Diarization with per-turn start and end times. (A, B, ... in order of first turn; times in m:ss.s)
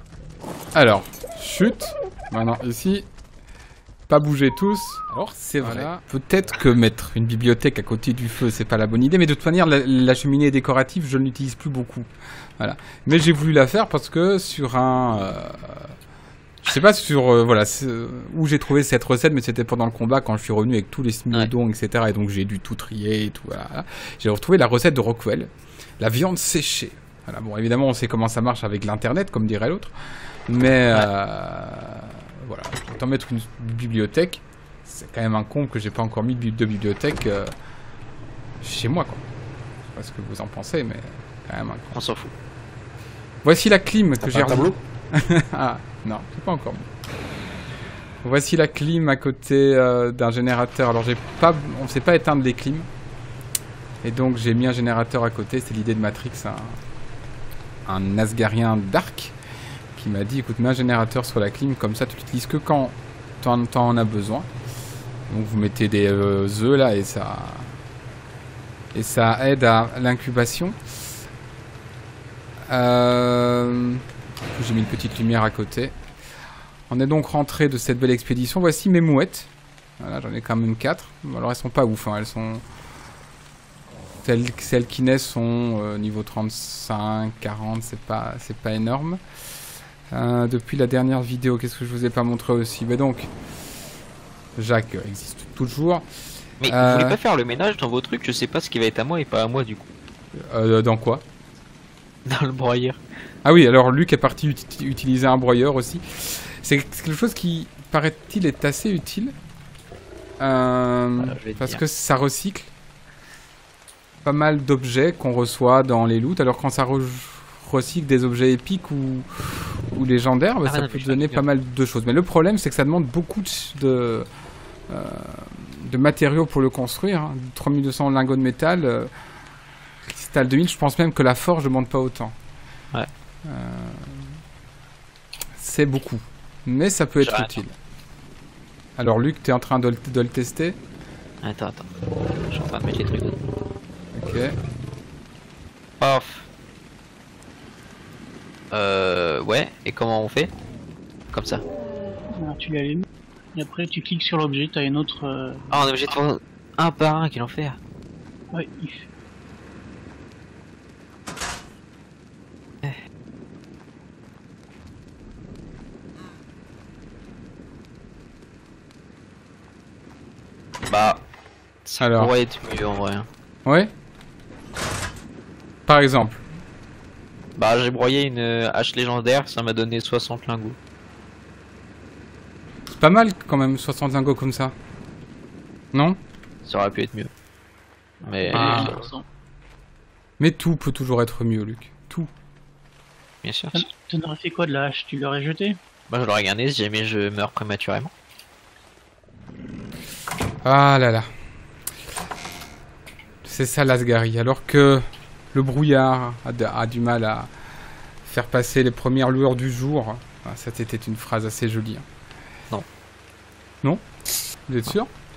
0:00.7-0:03.0 A
0:04.1-0:15.9 A
0:05.6-0:05.9 B
0:16.6-0:29.9 A
0:30.5-0:37.5 A
0:38.6-0:39.2 A
0:39.9-0:42.0 A
0:41.9-0:42.3 B
0:43.4-0:46.9 A
0:48.2-0:52.8 A
0:54.0-0:56.8 A
0:57.8-0:59.3 A
0:59.9-1:04.5 A
1:05.3-1:07.8 A
1:08.9-1:10.8 A
1:12.7-1:14.0 A
1:14.5-1:15.9 A
1:16.9-1:22.6 A
1:24.2-1:29.2 A
1:30.1-1:33.3 A
1:34.6-1:36.0 A
1:36.6-1:39.9 B
1:36.6-1:37.2 A
1:40.4-1:41.2 A
1:42.2-1:43.0 B
1:43.4-1:49.3 A
1:50.4-1:52.7 A
1:51.2-1:51.8 B
1:54.2-2:04.3 A
2:00.6-2:01.4 B
2:04.9-2:09.1 A
2:10.1-2:12.3 A
2:13.4-2:14.4 A
2:15.6-2:17.7 A
2:17.2-2:17.6 B
2:19.0-2:20.8 A
2:21.4-2:21.8 B
2:22.5-2:23.4 B
2:24.1-2:24.5 A
2:26.0-2:26.5 B
2:28.7-2:30.5 B
2:31.3-2:31.6 B
2:32.3-2:35.6 C
2:35.7-2:37.8 B
2:38.5-2:39.0 C
2:50.8-2:51.2 B
2:51.8-2:53.3 B
2:52.0-2:52.3 A
2:53.6-2:53.9 A
2:55.9-2:56.4 A
2:57.6-3:00.8 B
3:02.9-3:04.7 A
3:05.9-3:06.2 A
3:06.6-3:07.3 B
3:08.2-3:09.0 B
3:08.4-3:09.2 C
3:08.5-3:08.9 A
3:10.4-3:12.3 A
3:13.4-3:13.8 B
3:13.7-3:15.8 C
3:16.1-3:18.1 B
3:20.6-3:21.3 A
3:23.4-3:27.5 A
3:28.2-3:32.0 A
3:34.7-3:35.1 A